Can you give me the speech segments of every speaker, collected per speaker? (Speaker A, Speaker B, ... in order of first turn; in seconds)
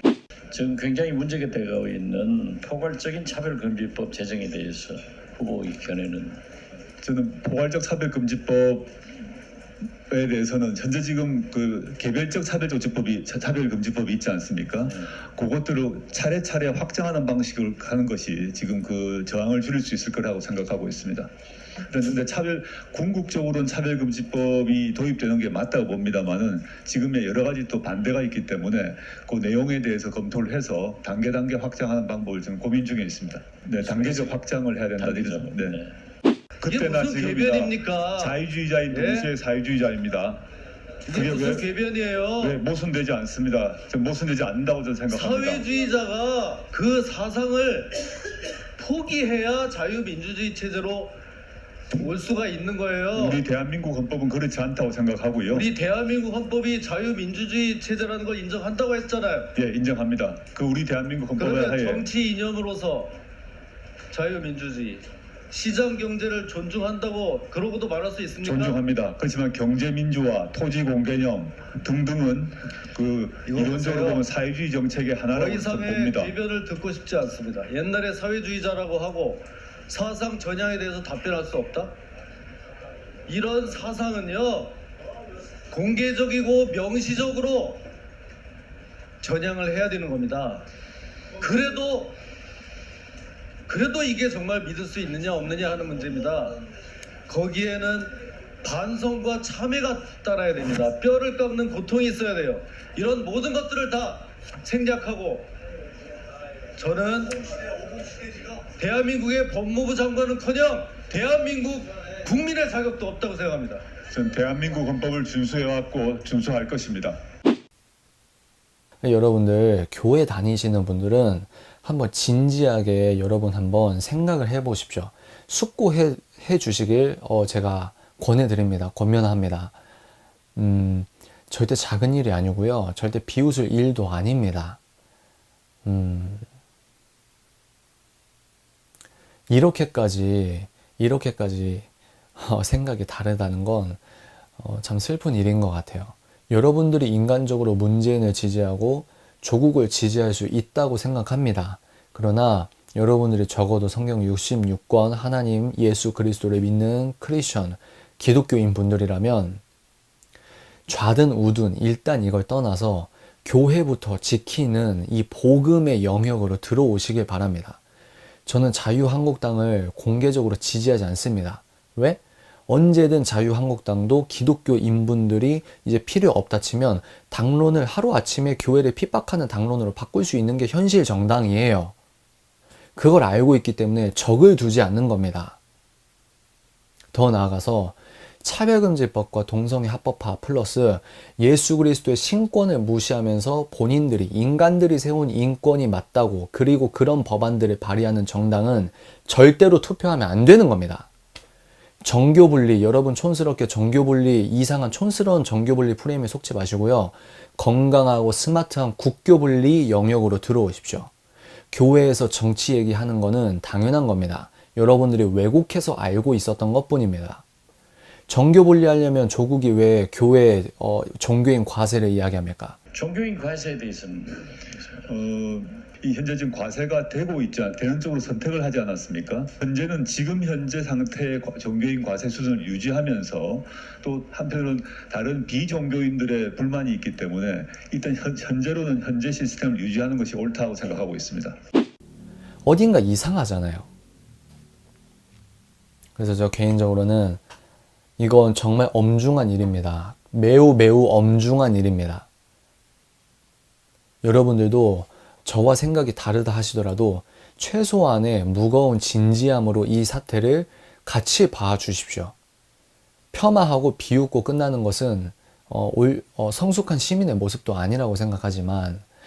Speaker A: 0.5-6.4, 14.8-15.2, 33.8-34.4, 35.0-35.9, 222.9-225.1
Speaker B: 7.0-8.9, 10.1-21.3, 21.9-35.8, 36.6-40.4, 41.1-41.7, 42.4-45.7, 53.1-55.7, 59.5-62.1, 68.4-76.3, 114.1-117.2, 225.0-241.6
Speaker C: 36.6-39.3, 41.1-42.6, 45.1-48.2, 48.8-51.1, 51.9-53.4, 55.5-59.5, 61.4-63.1, 64.1-68.8, 73.5-74.2, 75.3-82.0, 83.3-84.8, 85.7-87.8, 89.2-90.7, 91.4-92.2, 93.7-96.6, 97.3-105.5, 106.8-113.8
Speaker D: 119.0-129.8, 130.6-134.8, 135.8-136.4, 139.5-144.0, 144.6-159.6, 160.9-167.8, 168.4-181.9, 182.9-185.6, 187.1-201.1, 202.0-211.1, 211.7-217.4, 218.3-222.8, 242.6-243.9, 246.2-247.4, 248.2-252.3, 254.2-262.3, 263.3-269.1